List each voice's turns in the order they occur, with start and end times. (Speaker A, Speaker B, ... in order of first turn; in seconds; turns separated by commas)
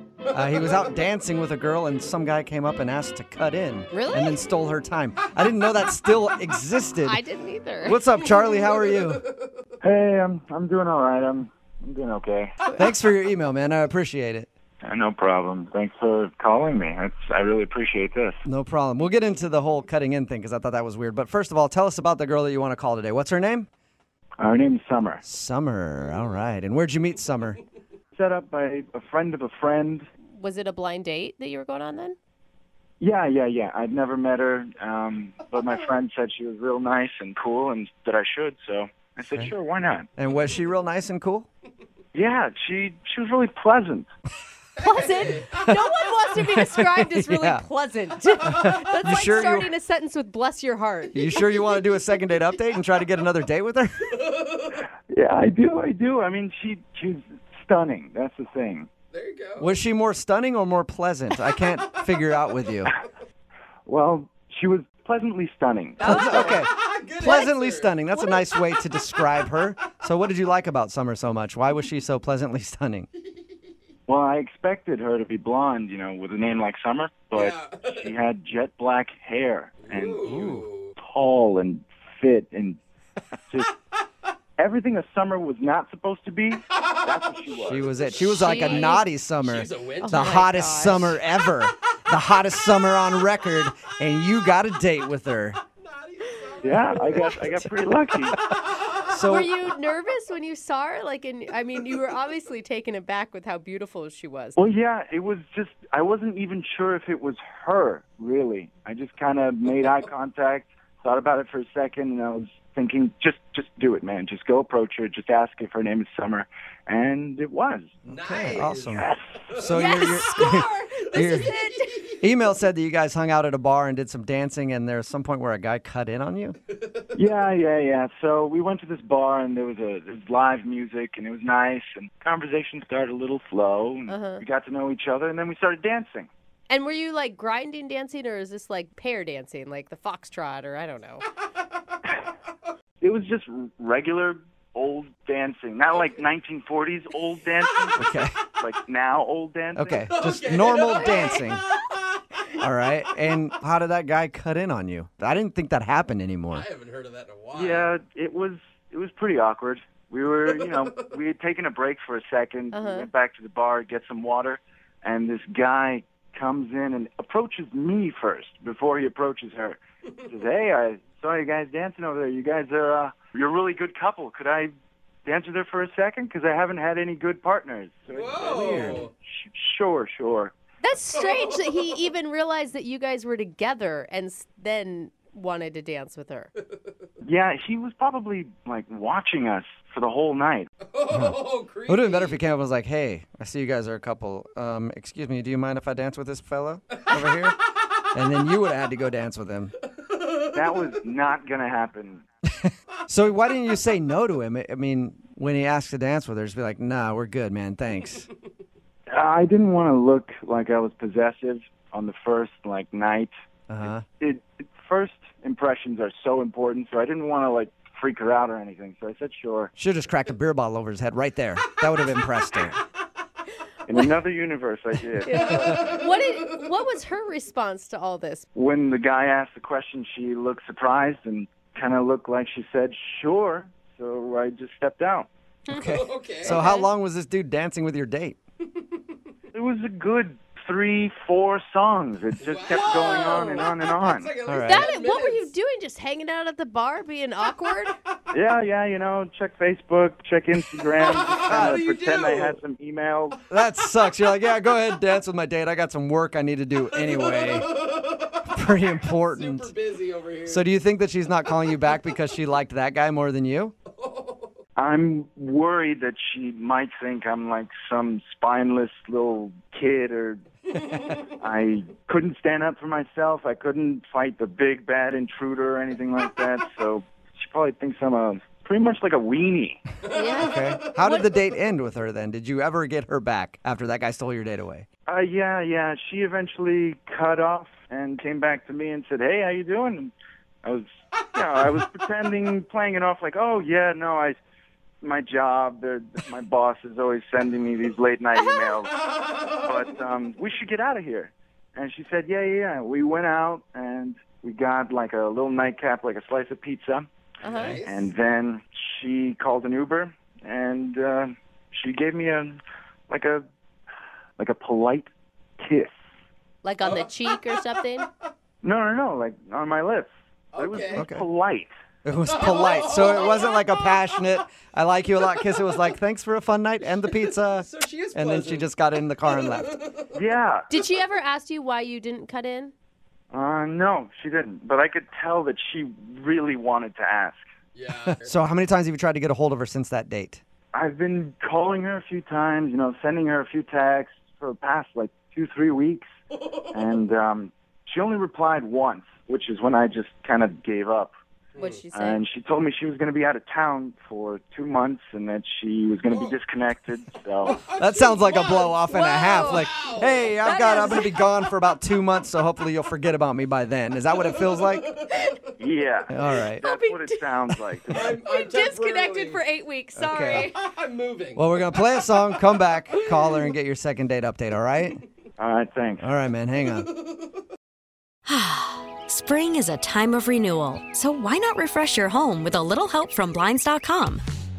Speaker A: 0.3-7.2, Speaker B: 3.9-4.4, Speaker B: 7.0-8.0, Speaker A: 7.8-9.2, Speaker C: 8.3-9.5, Speaker D: 9.8-12.6, Speaker A: 12.8-14.5, Speaker D: 14.8-18.4, Speaker A: 18.4-23.7, Speaker D: 24.4-25.2, Speaker A: 25.2-27.6, Speaker D: 28.2-30.1, Speaker B: 30.4-32.2, Speaker D: 33.0-40.1, Speaker A: 40.2-41.5, Speaker D: 42.1-44.1, Speaker C: 44.8-45.7, Speaker B: 44.8-51.2, Speaker A: 46.5-47.6, Speaker A: 48.5-49.7, Speaker C: 48.5-48.8, Speaker A: 51.1-54.2, Speaker C: 54.2-54.8, Speaker D: 55.1-58.9, Speaker C: 59.1-59.7, Speaker A: 59.6-62.9, Speaker D: 63.9-66.6, Speaker C: 66.0-68.7, Speaker A: 66.0-73.1, Speaker D: 74.1-80.5, Speaker C: 77.3-78.2, Speaker C: 79.8-80.9, Speaker A: 80.3-80.7, Speaker D: 81.0-82.8, Speaker D: 84.6-87.9, Speaker C: 86.7-87.2, Speaker A: 87.6-95.6, Speaker B: 88.5-89.0, Speaker C: 89.4-91.1, Speaker B: 90.2-90.9, Speaker C: 95.8-97.5, Speaker D: 96.6-98.4, Speaker C: 98.5-99.2, Speaker A: 99.1-99.5, Speaker B: 99.3-104.6, Speaker D: 104.6-118.0, Speaker C: 118.1-120.2, Speaker A: 118.1-121.6, Speaker B: 119.8-121.9, Speaker C: 121.1-122.2, Speaker A: 122.2-126.6, Speaker C: 126.8-127.1, Speaker D: 127.2-136.3, Speaker B: 134.1-134.4, Speaker B: 136.7-141.2, Speaker D: 143.0-150.1, Speaker A: 148.0-148.3, Speaker A: 149.8-151.7, Speaker C: 150.1-152.5, Speaker A: 152.6-156.7, Speaker C: 156.5-157.9, Speaker D: 157.5-174.7, Speaker C: 160.5-161.1, Speaker B: 162.7-163.1, Speaker D: 175.2-180.5, Speaker C: 178.1-179.1, Speaker B: 180.8-186.5, Speaker C: 181.1-182.1, Speaker C: 186.6-186.9, Speaker D: 187.2-190.7, Speaker C: 190.8-192.4, Speaker A: 191.1-197.6, Speaker A: 198.1-199.7, Speaker C: 200.1-200.8, Speaker D: 200.5-202.2, Speaker A: 202.6-208.2, Speaker D: 209.1-213.3, Speaker A: 213.7-214.1, Speaker D: 214.1-219.7, Speaker A: 219.8-222.8, Speaker D: 223.8-225.9, Speaker B: 225.3-228.5, Speaker C: 225.3-226.8, Speaker D: 228.6-235.3, Speaker A: 235.7-238.4, Speaker C: 235.8-236.7, Speaker D: 239.5-244.3, Speaker C: 242.4-245.5, Speaker A: 244.5-244.9, Speaker B: 244.7-248.0, Speaker D: 248.3-253.4, Speaker C: 250.8-252.6, Speaker A: 251.4-251.8, Speaker A: 253.5-257.7, Speaker C: 256.9-260.7, Speaker A: 258.5-259.7, Speaker A: 260.5-263.7, Speaker C: 263.9-264.5, Speaker D: 264.8-270.4, Speaker D: 271.1-279.8, Speaker C: 280.0-281.2, Speaker B: 280.2-280.5, Speaker A: 280.4-284.9, Speaker D: 285.1-290.1, Speaker D: 290.6-294.4, Speaker D: 295.0-298.9, Speaker C: 299.2-299.5, Speaker D: 299.6-312.6, Speaker C: 307.4-308.1, Speaker B: 307.4-307.8, Speaker D: 313.1-313.4, Speaker D: 314.4-315.1, Speaker D: 315.6-315.9, Speaker B: 316.6-318.1, Speaker C: 316.8-318.3, Speaker D: 318.6-321.7, Speaker C: 320.5-321.1, Speaker A: 320.9-321.2, Speaker A: 322.1-329.7, Speaker C: 322.3-323.6, Speaker C: 326.8-328.7, Speaker C: 329.2-330.3, Speaker D: 330.1-330.7, Speaker B: 330.7-332.7, Speaker D: 333.3-337.4, Speaker C: 337.8-338.4, Speaker A: 338.1-340.4, Speaker D: 340.7-346.1, Speaker D: 346.7-351.1, Speaker C: 351.6-351.9, Speaker B: 351.6-352.2, Speaker D: 351.9-357.6, Speaker C: 356.1-356.4, Speaker C: 357.4-361.0, Speaker A: 357.7-364.9, Speaker B: 360.4-361.0, Speaker C: 364.2-365.5, Speaker D: 365.6-368.2, Speaker A: 366.1-366.6, Speaker B: 366.6-370.6, Speaker C: 367.9-369.4, Speaker A: 370.0-370.5, Speaker C: 370.3-371.6, Speaker A: 371.4-375.0, Speaker D: 375.4-376.1, Speaker A: 376.0-376.9, Speaker C: 376.8-377.3, Speaker E: 378.3-384.2